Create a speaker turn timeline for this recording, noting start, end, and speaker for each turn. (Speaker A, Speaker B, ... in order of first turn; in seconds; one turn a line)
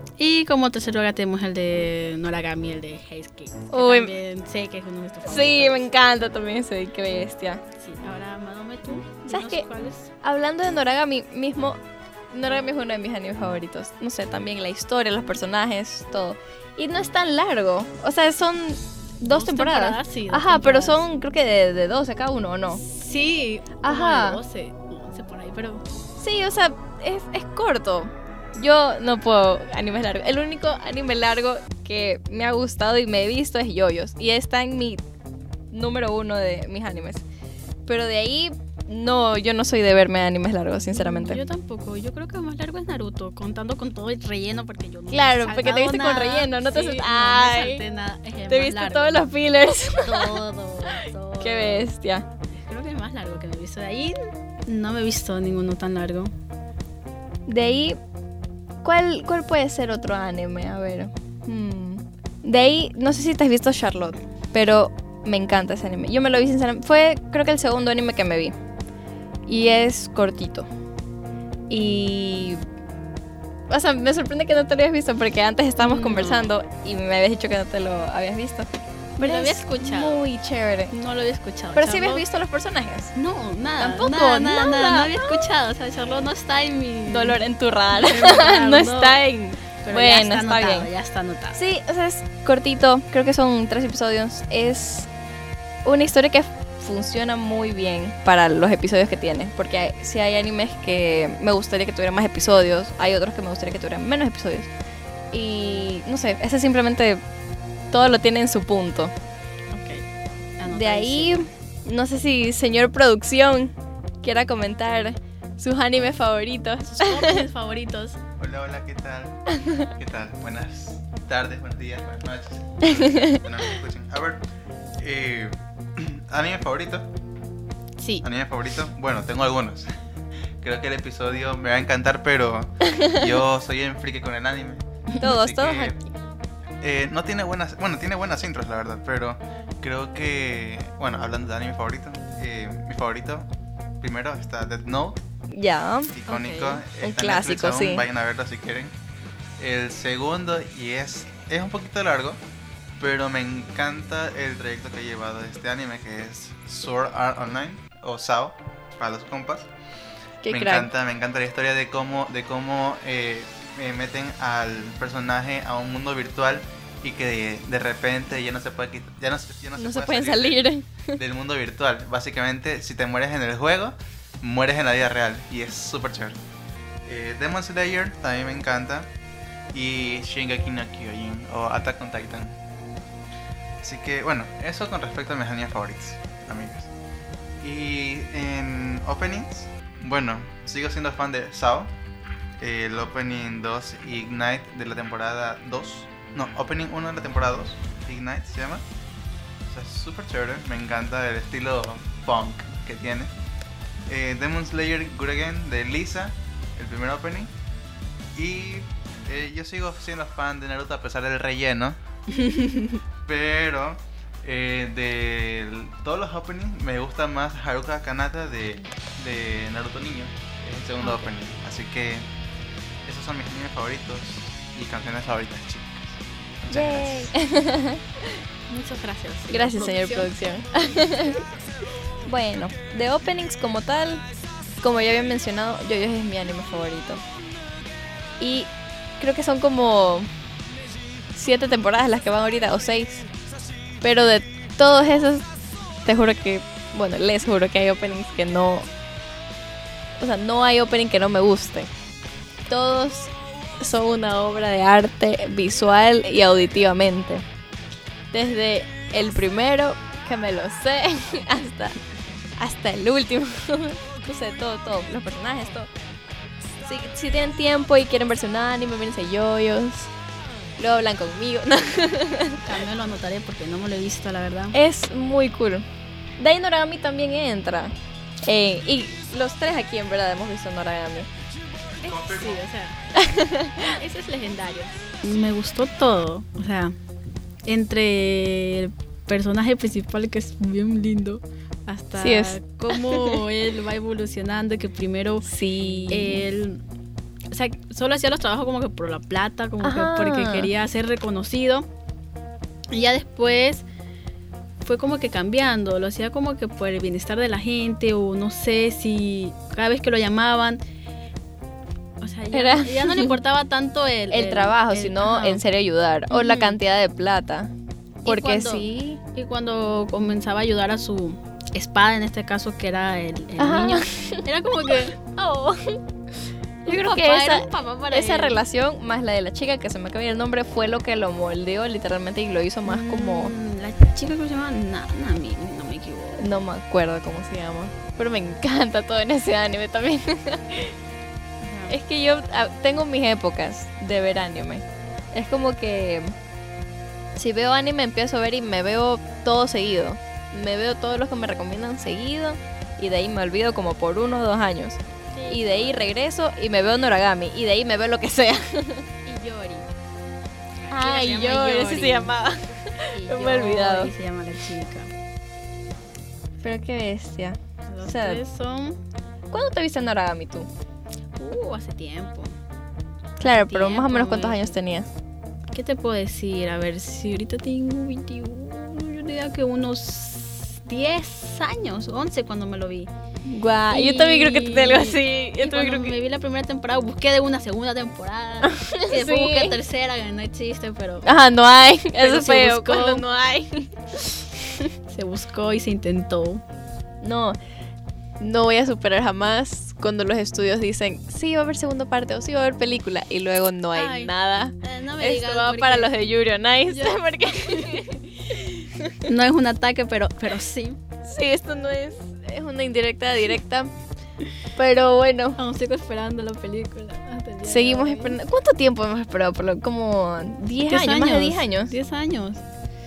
Speaker A: 0.2-5.9
Speaker B: 3.7-4.1
Speaker B: 5.2-7.6
Speaker A: 7.8-10.1
Speaker B: 9.3-9.6
Speaker B: 10.2-11.8
Speaker B: 12.3-22.8
Speaker A: 19.2-21.0
Speaker A: 22.7-25.8
Speaker B: 23.8-24.4
Speaker B: 26.2-35.0
Speaker B: 35.7-37.2
Speaker B: 37.9-41.4
Speaker A: 40.9-49.3
Speaker B: 45.1-47.8
Speaker B: 48.5-50.4
Speaker A: 50.0-51.9
Speaker B: 51.4-52.3
Speaker A: 52.6-56.3
Speaker B: 57.5-58.0
Speaker B: 58.8-68.5
Speaker B: 69.5-70.7
Speaker B: 71.7-72.6
Speaker B: 73.7-78.7
Speaker A: 75.8-76.5
Speaker A: 79.2-80.2
Speaker B: 79.2-80.9
Speaker A: 80.9-82.2
Speaker B: 81.7-83.1
Speaker A: 83.1-87.4
Speaker B: 83.8-85.5
Speaker B: 87.1-90.9
Speaker A: 87.9-89.2
Speaker A: 89.8-91.6
Speaker B: 91.5-95.1
Speaker B: 95.8-104.7
Speaker B: 105.3-107.2
Speaker B: 107.9-109.1
Speaker A: 109.7-110.0
Speaker A: 110.6-111.4
Speaker B: 110.7-117.5
Speaker A: 116.9-118.2
Speaker C: 118.4-119.4
Speaker B: 119.5-119.9
Speaker C: 120.0-124.4
Speaker B: 122.9-123.4
Speaker C: 125.0-127.1
Speaker A: 128.0-128.2
Speaker C: 128.2-129.9
Speaker C: 130.6-135.9
Speaker B: 132.8-133.4
Speaker B: 135.2-135.9
Speaker C: 136.8-143.4
Speaker C: 144.0-145.2
Speaker B: 145.5-146.1
Speaker C: 146.1-148.9
Speaker A: 146.3-146.8
Speaker B: 147.0-148.1
Speaker C: 149.6-152.4
Speaker C: 153.0-159.7
Speaker B: 160.4-160.9
Speaker C: 160.5-176.4
Speaker B: 169.8-171.2
Speaker C: 177.1-179.1
Speaker C: 179.7-182.5
Speaker C: 183.8-186.9
Speaker C: 187.6-191.9
Speaker C: 192.6-198.8
Speaker C: 199.7-203.3
Speaker C: 204.1-207.5
Speaker C: 208.3-212.0
Speaker A: 212.4-213.0
Speaker C: 213.2-222.3
Speaker A: 221.0-221.3
Speaker C: 223.1-227.3
Speaker B: 226.7-228.4
Speaker A: 228.7-230.3
Speaker B: 229.5-231.4
Speaker B: 232.2-234.2
Speaker B: 234.8-237.2
Speaker B: 238.4-240.3
Speaker B: 241.3-243.2
Speaker B: 244.0-245.5
Speaker B: 246.0-248.9
Speaker B: 250.2-251.9
Speaker B: 252.7-257.4
Speaker B: 258.3-262.0
Speaker B: 262.6-265.9
Speaker B: 266.8-270.1
Speaker B: 270.8-272.7
Speaker A: 272.6-274.8
Speaker B: 274.7-275.8
Speaker B: 276.4-281.3
Speaker C: 282.0-282.6
Speaker A: 282.1-283.0
Speaker B: 283.2-284.0
Speaker A: 283.9-286.9
Speaker A: 287.6-295.4
Speaker B: 292.1-293.4
Speaker B: 295.5-296.4
Speaker A: 296.1-296.8
Speaker A: 297.5-301.9
Speaker B: 299.8-300.7
Speaker A: 302.9-303.9
Speaker A: 304.8-310.8
Speaker A: 312.2-315.6
Speaker B: 312.5-313.3
Speaker B: 314.3-317.7
Speaker A: 316.3-316.8
Speaker B: 318.2-319.2
Speaker A: 318.2-326.0
Speaker B: 323.6-325.1
Speaker A: 326.8-328.6
Speaker B: 326.9-333.5
Speaker A: 332.9-336.4
Speaker B: 336.4-340.9
Speaker A: 341.6-342.0
Speaker B: 341.9-346.3
Speaker B: 347.4-359.1
Speaker A: 355.3-356.0
Speaker A: 359.2-359.9
Speaker A: 360.8-362.4
Speaker B: 360.9-364.1
Speaker A: 363.1-365.1
Speaker B: 366.6-368.4
Speaker A: 367.9-369.0
Speaker B: 369.5-370.7
Speaker A: 371.4-372.5
Speaker B: 373.4-375.1
Speaker A: 373.6-374.8
Speaker A: 375.7-383.1
Speaker B: 383.4-386.1
Speaker A: 383.9-391.3
Speaker B: 388.6-389.8
Speaker B: 391.2-394.8
Speaker A: 392.2-393.2
Speaker A: 395.1-396.6
Speaker B: 397.2-397.6
Speaker B: 398.4-408.2
Speaker A: 403.9-406.1
Speaker A: 406.9-411.0
Speaker B: 411.2-413.9
Speaker B: 414.8-415.6
Speaker A: 415.6-418.4
Speaker B: 417.6-421.9
Speaker A: 420.9-422.6